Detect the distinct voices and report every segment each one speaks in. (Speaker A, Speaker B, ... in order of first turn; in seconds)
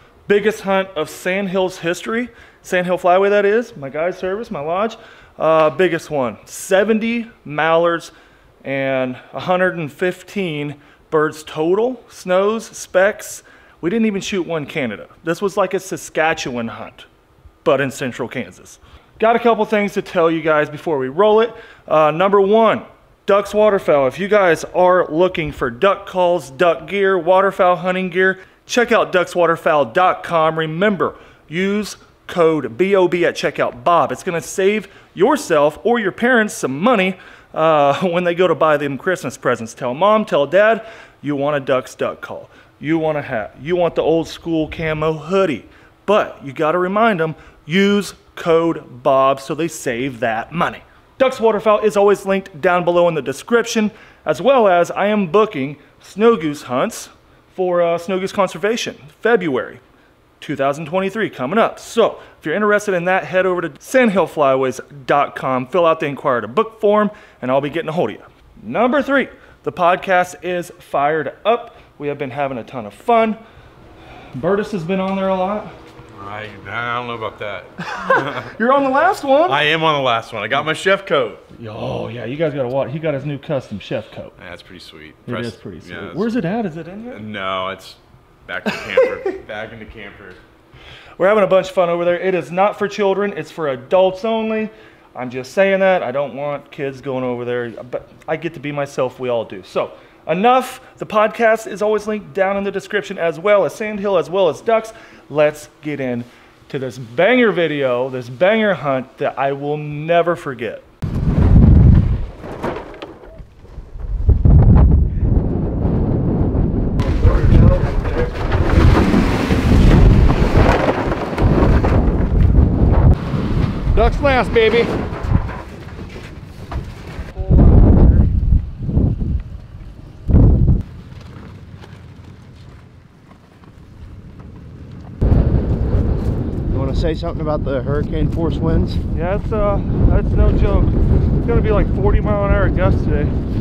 Speaker A: 0.3-8.1, 8.6-17.1, 17.6-59.8, 60.4-73.4, 74.3-75.7, 77.8-79.6, 81.5-84.3, 85.2-87.2, 88.7-89.3, 91.2-110.8, 117.4-117.8, 124.0-124.9, 139.1-143.3
Speaker B: 76.2-78.5, 79.5-81.4, 84.4-86.3, 87.1-90.4
Speaker C: 136.7-139.0